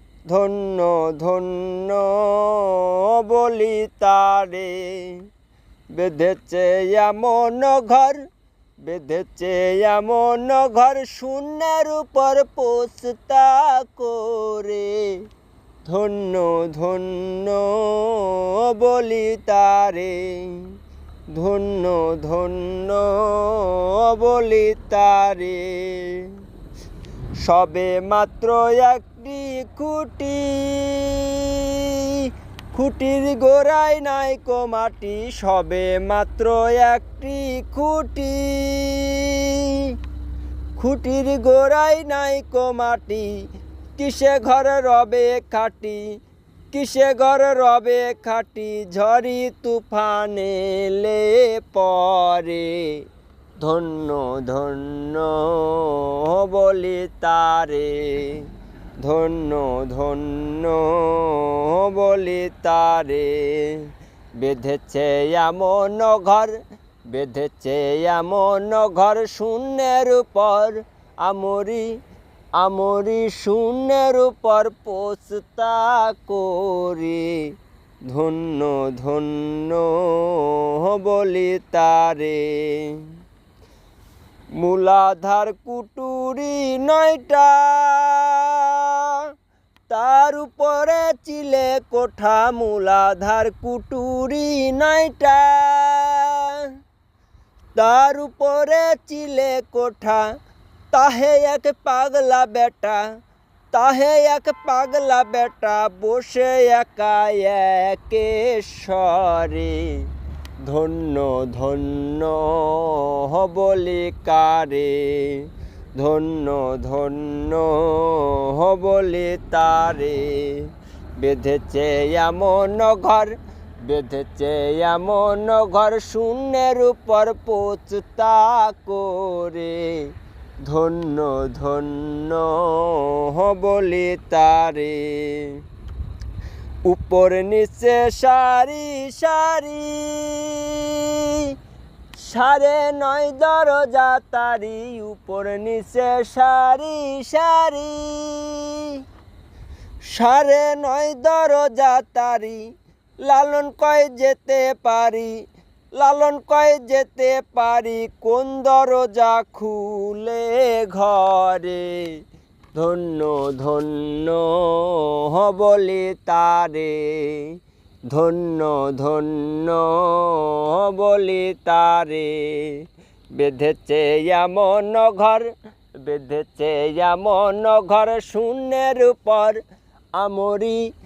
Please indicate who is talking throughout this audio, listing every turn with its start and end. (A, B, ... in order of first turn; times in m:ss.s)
0:00.3-0:05.2 A
0:05.9-0:08.2 A
0:08.8-0:15.2 A
0:15.8-0:20.7 A
0:21.3-0:26.3 A
0:27.4-0:39.9 A
0:40.8-0:43.3 A
0:44.0-0:46.1 A
0:46.7-0:53.0 A
0:53.6-0:58.5 A
0:59.0-1:06.6 A
1:07.1-1:11.9 A
1:12.6-1:17.5 A
1:18.1-1:23.1 A
1:24.6-1:29.3 A
1:29.9-1:36.7 A
1:37.8-1:40.3 A
1:40.9-1:43.0 A
1:43.7-1:50.1 A
1:50.6-2:10.1 A
2:10.6-2:15.6 A
2:16.9-2:21.5 A
2:22.1-2:29.0 A
2:30.1-2:32.6 A
2:33.2-2:35.4 A
2:36.0-2:42.2 A
2:42.7-2:59.6 A
3:00.2-3:00.9 A